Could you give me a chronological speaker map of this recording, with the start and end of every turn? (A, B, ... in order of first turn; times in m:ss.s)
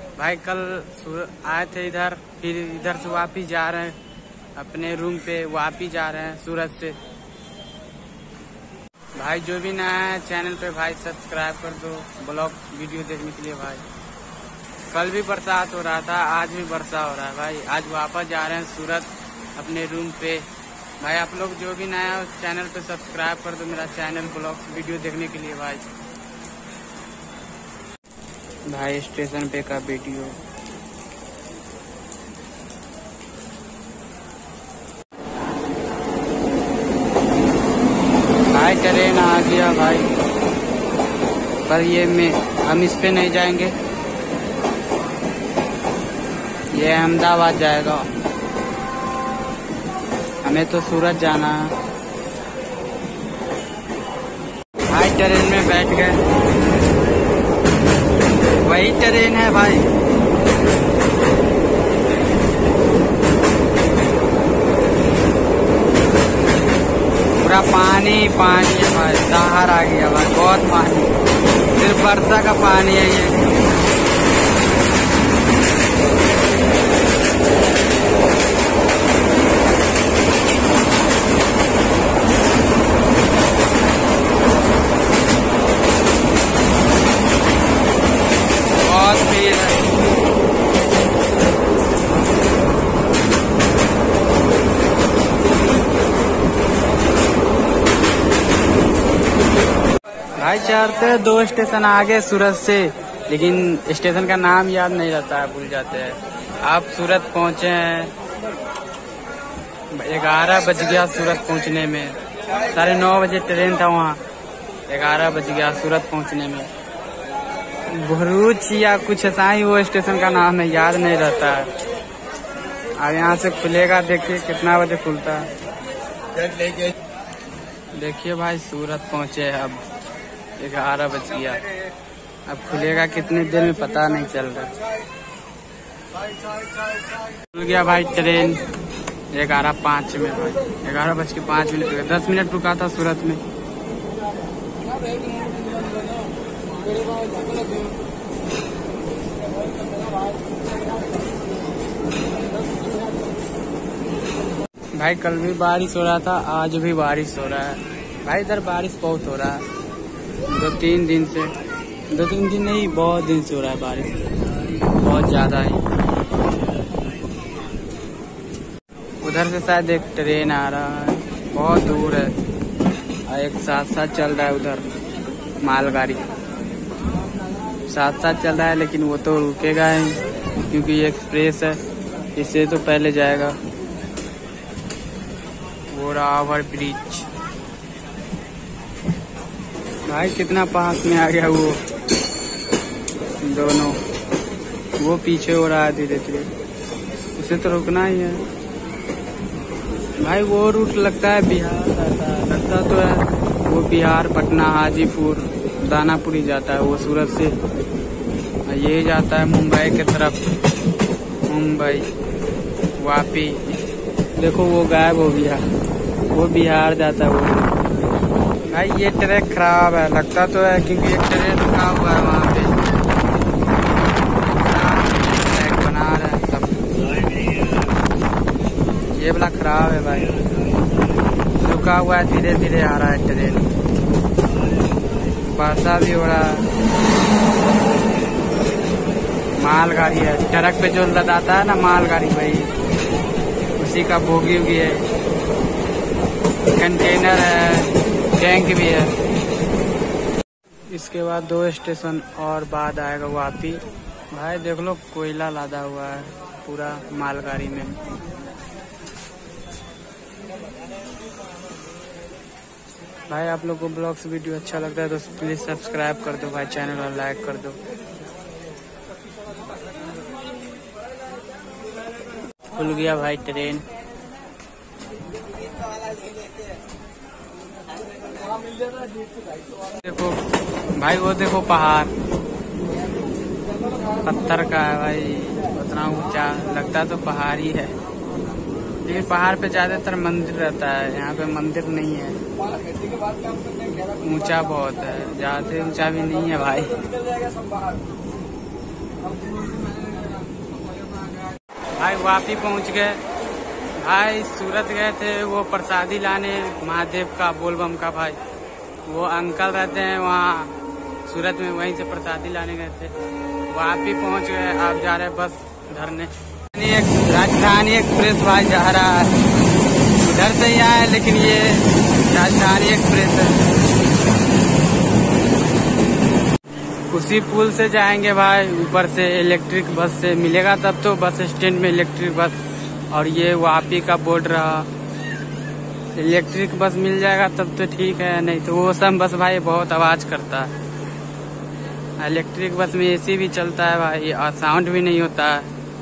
0:00.2-0:04.0 A
0:04.6-0:07.0 A
0:09.2-0:13.8 A
0:14.9-0:20.5 A
0:21.0-0:25.8 A
0:28.7-0:30.4 A
0:38.5-0:40.1 A
0:41.7-0:43.7 A
0:46.7-0:48.1 A
0:50.4-0:51.7 A
0:54.9-0:56.2 A
0:58.6-0:59.9 A
1:07.4-1:11.1 A
1:11.7-1:13.4 A
1:28.8-1:29.8 A
1:40.4-1:48.1 A
1:49.9-1:52.2 A
1:52.7-1:54.2 A
1:54.9-1:56.7 A
1:57.9-2:01.7 A
2:03.0-2:05.5 A
2:08.0-2:09.8 A
2:10.6-2:11.6 A
2:12.5-2:14.8 A
2:17.5-2:18.6 A
2:19.3-2:23.4 A
2:35.0-2:39.6 A
2:40.5-2:41.5 A
2:42.1-2:44.2 A
2:45.0-2:45.8 A
2:49.2-2:52.4 A
2:53.3-2:54.8 A
2:55.6-2:56.3 A
2:57.9-3:00.2 A
3:00.7-3:01.8 A
3:02.4-3:03.6 A
3:05.9-3:07.3 A
3:10.1-3:11.8 A
3:13.4-3:14.0 A
3:15.0-3:16.5 A
3:17.4-3:18.4 A
3:20.2-3:27.6 A
3:28.7-3:30.4 A
3:31.5-3:32.1 A
3:33.0-3:33.8 A
3:34.4-3:35.6 A
3:36.3-3:37.7 A
3:38.7-3:42.7 A
3:44.6-3:46.9 A
3:49.1-3:50.4 A
3:51.6-3:53.7 A
3:55.4-3:56.6 A
3:59.6-4:02.7 A
4:03.8-4:05.0 A
4:06.8-4:09.1 A
4:10.9-4:18.0 A
4:23.3-4:27.8 A
4:32.7-4:33.8 A
4:39.9-4:40.4 A
4:41.0-4:42.1 A
4:44.2-4:47.9 A
4:49.0-4:52.4 A
4:54.2-4:57.1 A
5:02.0-5:03.2 A
5:04.0-5:08.4 A
5:09.1-5:10.7 A
5:11.2-5:13.1 A
5:13.7-5:19.4 A
5:20.2-5:23.6 A
5:27.1-5:34.9 A
5:36.2-5:40.7 A
5:42.2-5:45.7 A